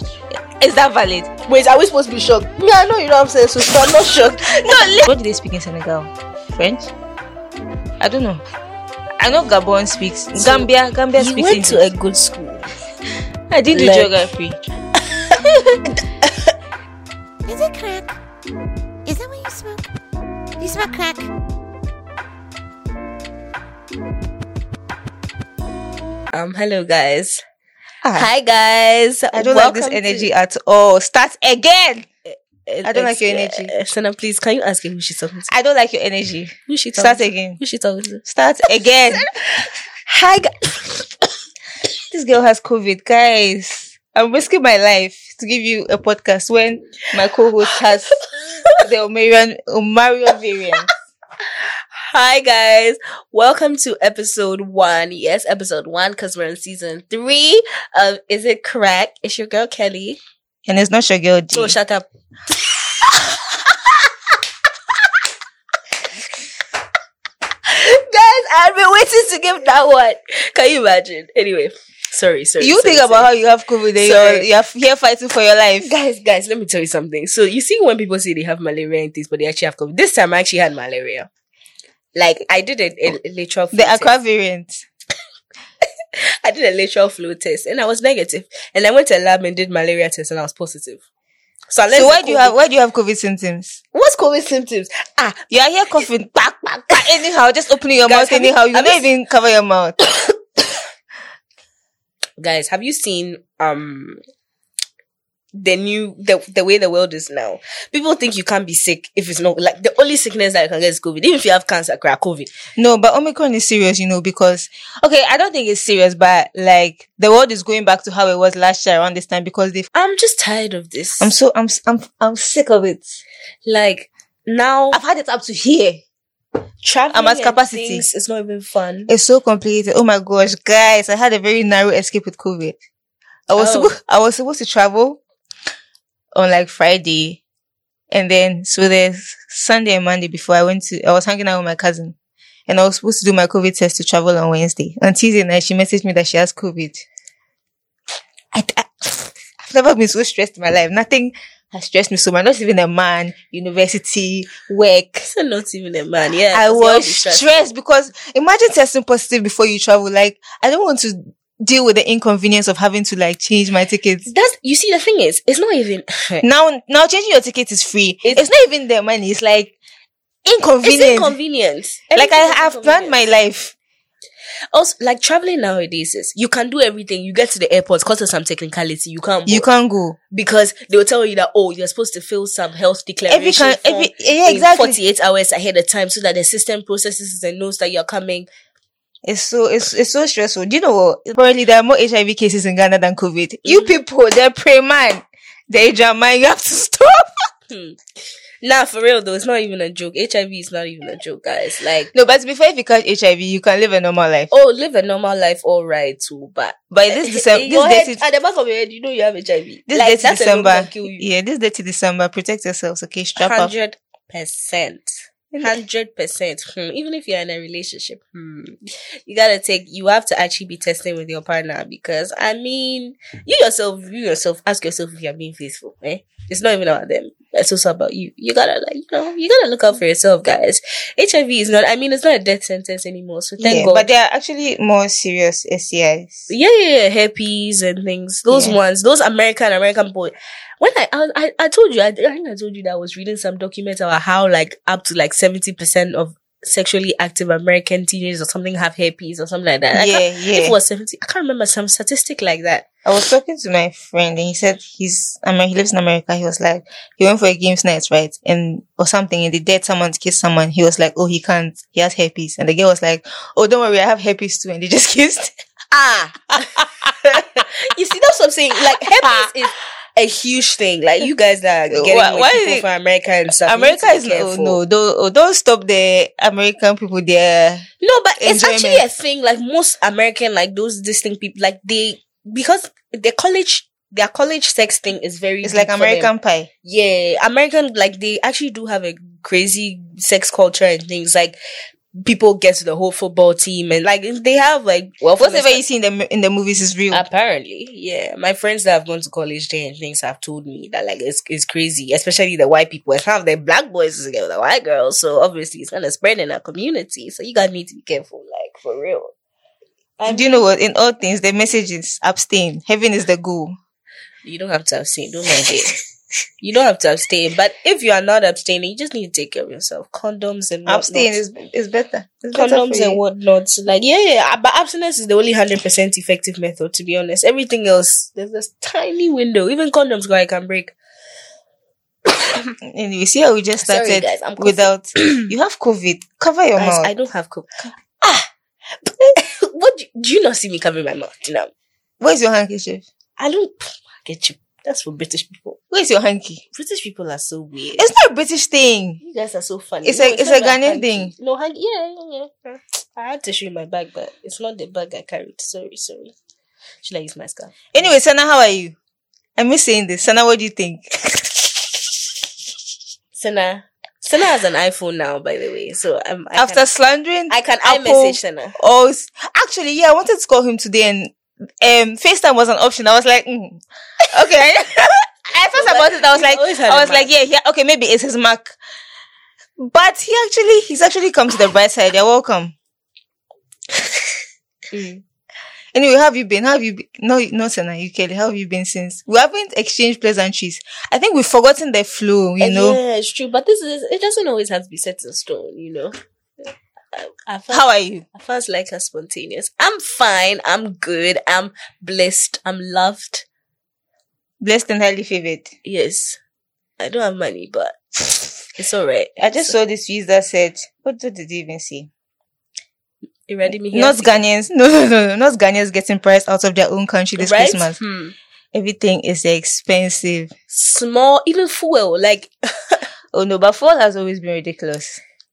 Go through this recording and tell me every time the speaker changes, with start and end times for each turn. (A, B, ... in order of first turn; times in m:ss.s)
0:00.6-0:01.3 A
0:01.5-0:05.0 B
0:04.6-0:06.9 A
0:08.0-0:08.4 A
0:09.2-0:11.8 A
0:10.4-0:12.7 B
0:13.5-0:14.6 A
0:13.7-0:14.1 B
0:15.0-0:16.5 B
0:17.4-0:18.2 C
0:19.0-0:19.9 C
0:20.6-0:21.3 C
0:26.3-0:27.4 B
0:28.0-0:28.3 A
0:28.1-0:30.3 B
0:29.3-0:32.0 A
0:32.3-0:35.5 B
0:32.8-0:33.7 A
0:35.5-0:37.6 A
0:36.7-0:38.2 B
0:38.2-0:39.3 A
0:39.1-0:41.1 B
0:42.1-0:48.2 A
0:48.4-0:48.8 B
0:48.8-0:50.9 A
0:51.6-1:00.2 B
1:00.6-1:01.8 A
1:01.5-1:04.1 B
1:07.7-1:13.3 B
1:12.6-1:15.9 A
1:14.0-1:14.5 B
1:15.8-1:21.3 B
1:22.1-1:24.1 B
1:23.7-1:24.8 A
1:26.2-1:31.0 B
1:31.7-1:32.6 B
1:31.9-1:33.8 A
1:33.9-1:35.4 B
1:35.5-1:40.0 A
1:38.0-1:39.1 B
1:42.4-1:44.2 B
1:45.5-1:52.5 B
1:52.8-1:59.9 A
1:59.9-2:01.3 B
2:01.2-2:03.2 A
2:03.6-2:05.0 B
2:04.9-2:06.0 A
2:06.8-2:09.1 B
2:07.1-2:08.0 A
2:09.1-2:12.8 A
2:13.5-2:15.2 A
2:13.5-2:13.9 B
2:16.3-2:17.4 A
2:18.1-2:22.1 A
2:22.7-2:27.0 A
2:28.5-2:35.3 A
2:35.2-2:37.6 B
2:36.5-2:44.3 A
2:44.2-2:46.4 B
2:46.4-2:49.7 A
2:50.4-2:51.3 A
2:50.8-2:53.2 B
2:52.1-2:53.7 A
2:54.7-2:59.7 B
2:59.5-3:00.2 A
3:00.3-3:08.5 B
3:03.3-3:05.0 A
3:09.2-3:17.3 A
3:13.6-3:14.0 B
3:17.7-3:18.0 B
3:18.6-3:22.1 B
3:22.1-3:24.5 A
3:24.5-3:31.2 B
3:26.9-3:28.2 A
3:29.9-3:33.7 A
3:33.4-3:54.1 B
3:35.5-3:35.8 A
3:53.6-3:56.5 A
3:56.5-4:12.9 B
3:58.5-3:58.8 A
4:09.9-4:10.8 A
4:13.0-4:25.5 A
4:25.9-4:34.8 B
4:26.6-4:27.6 A
4:29.2-4:29.5 A
4:31.9-4:32.8 A
4:33.6-4:37.9 A
4:38.0-4:46.3 B
4:38.4-4:39.0 A
4:45.6-4:46.7 A
4:46.8-4:51.6 B
4:52.2-4:55.8 B
4:55.4-4:57.2 A
4:57.1-5:09.3 B
5:10.2-5:10.6 B
5:10.3-5:13.8 A
5:14.4-5:16.0 B
5:16.6-5:21.4 B
5:20.8-5:23.2 A
5:22.5-5:30.9 B
5:32.8-5:37.1 A
5:33.8-5:35.5 B
5:36.8-5:38.5 B
5:39.0-5:41.7 B
5:42.2-5:43.0 A
5:43.4-5:45.8 B
5:45.9-5:46.6 A
5:46.7-5:48.1 B
5:48.0-5:49.2 A
5:49.2-5:56.3 B
5:50.0-5:51.3 A
5:57.0-5:58.1 B
5:57.9-5:58.9 A
5:59.6-6:02.2 A
6:03.4-6:06.8 B
6:06.5-6:13.8 A
6:07.5-6:08.8 B
6:14.3-6:18.8 A
6:15.7-6:17.3 B
6:19.8-6:22.7 A
6:24.9-6:25.2 B
6:25.9-6:33.0 A
6:32.6-6:36.1 B
6:37.1-6:43.4 B
6:37.7-6:38.2 A
6:44.6-6:45.7 A
6:45.8-6:46.4 B
6:47.0-6:49.7 B
6:49.4-6:52.1 A
6:53.5-6:54.4 B
6:53.9-6:58.0 A
6:57.4-6:58.3 B
6:58.7-7:00.5 A
7:00.7-7:03.0 B
7:03.3-7:05.2 A